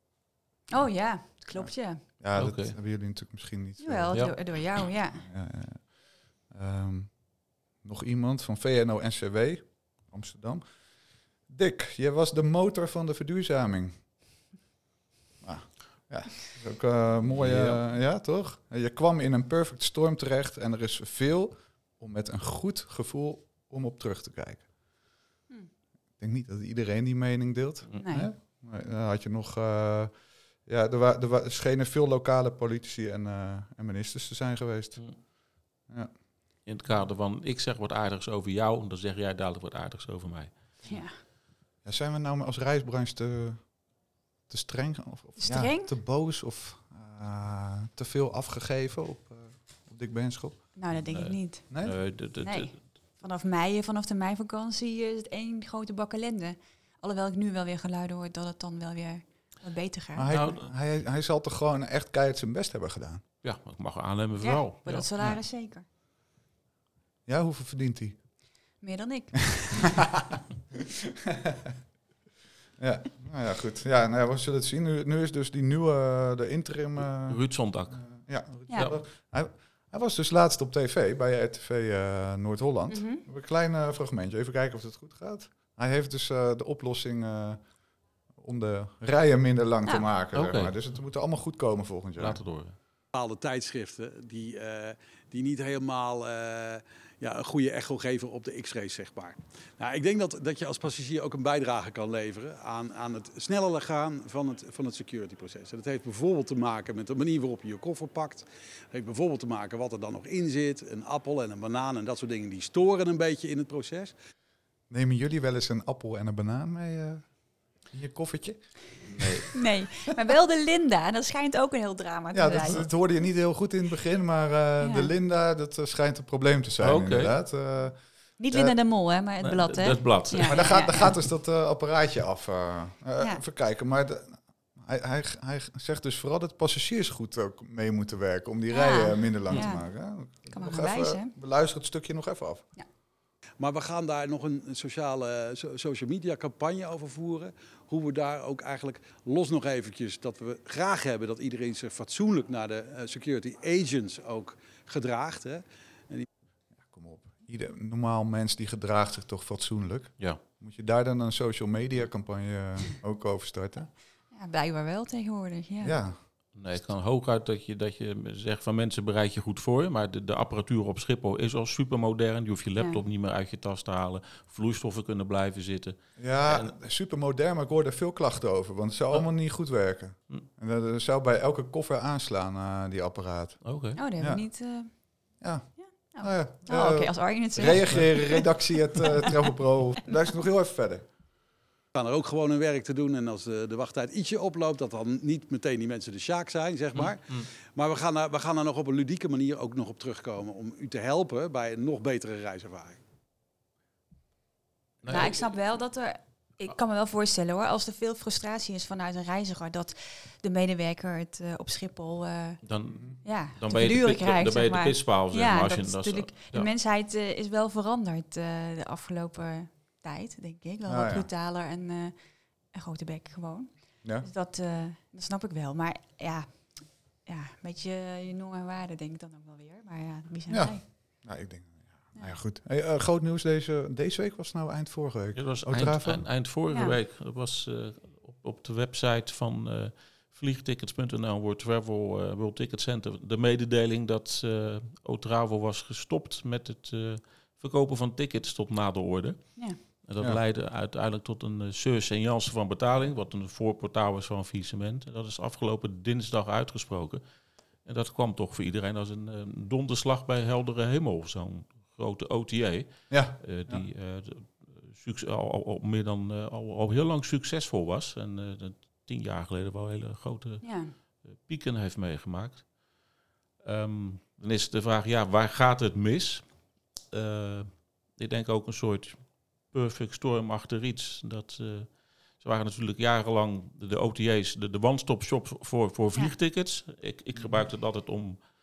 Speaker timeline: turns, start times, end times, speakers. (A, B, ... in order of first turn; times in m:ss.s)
0:00.7-0:02.0 A
0:01.6-0:04.5 B
0:02.4-0:02.8 C
0:03.8-0:05.2 A
0:05.2-0:05.9 B
0:06.5-0:07.2 B
0:07.8-0:10.6 B
0:11.5-0:14.0 B
0:15.4-0:24.6 B
0:17.3-0:17.8 C
0:26.2-0:30.1 B
0:28.0-0:28.3 A
0:30.7-0:35.0 B
0:36.7-0:40.5 C
0:40.9-0:41.1 A
0:41.8-0:43.7 B
0:44.5-0:50.7 B
0:45.4-0:45.9 A
0:50.8-0:51.6 A
0:51.1-0:52.8 C
0:51.7-0:52.0 B
0:52.4-1:00.3 A
1:00.2-1:03.2 B
1:00.3-1:00.7 C
1:03.4-1:05.0 C
1:04.4-1:05.8 A
1:07.3-1:08.2 B
1:08.8-1:10.0 A
1:09.8-1:10.4 B
1:11.0-1:11.8 B
1:12.8-1:17.4 B
1:17.2-1:18.1 C
1:17.9-1:27.6 B
1:22.9-1:23.2 A
1:28.4-1:32.4 B
1:30.3-1:30.7 C
1:32.2-1:32.8 C
1:33.1-1:54.1 D
1:54.9-1:57.3 B
1:57.9-1:59.4 B
1:59.2-1:59.5 C
1:59.5-2:02.9 A
2:02.3-2:08.0 B
2:04.8-2:05.1 A
2:06.8-2:07.3 C
2:08.4-2:11.1 A
2:09.4-2:10.7 C
2:10.4-2:22.6 B
2:18.7-2:19.8 A
2:20.5-2:21.3 A
2:23.6-2:36.3 D
2:36.8-2:43.9 B
2:44.3-2:46.0 A
2:45.8-2:46.2 B
2:46.6-2:56.7 C
2:56.2-3:03.6 B
3:03.6-3:04.0 C
3:04.0-3:04.9 A
3:05.4-3:11.1 B
3:05.8-3:09.4 A
3:12.0-3:23.0 D
3:16.9-3:17.5 C
3:25.0-3:25.4 C
3:25.1-3:32.6 A
3:32.6-3:33.0 C
3:33.2-3:42.2 A
3:33.6-3:36.7 C
3:40.9-3:41.3 B
3:42.7-3:43.7 A
3:44.2-3:46.6 A
3:47.3-3:50.8 A
3:50.5-3:56.3 B
3:55.4-4:17.2 C
4:17.8-4:30.6 C
4:23.1-4:23.8 B
4:30.6-4:30.9 A
4:31.3-4:32.7 C
4:33.6-4:36.4 C
4:37.1-4:39.2 C
4:39.7-4:48.4 C
4:47.4-4:47.6 B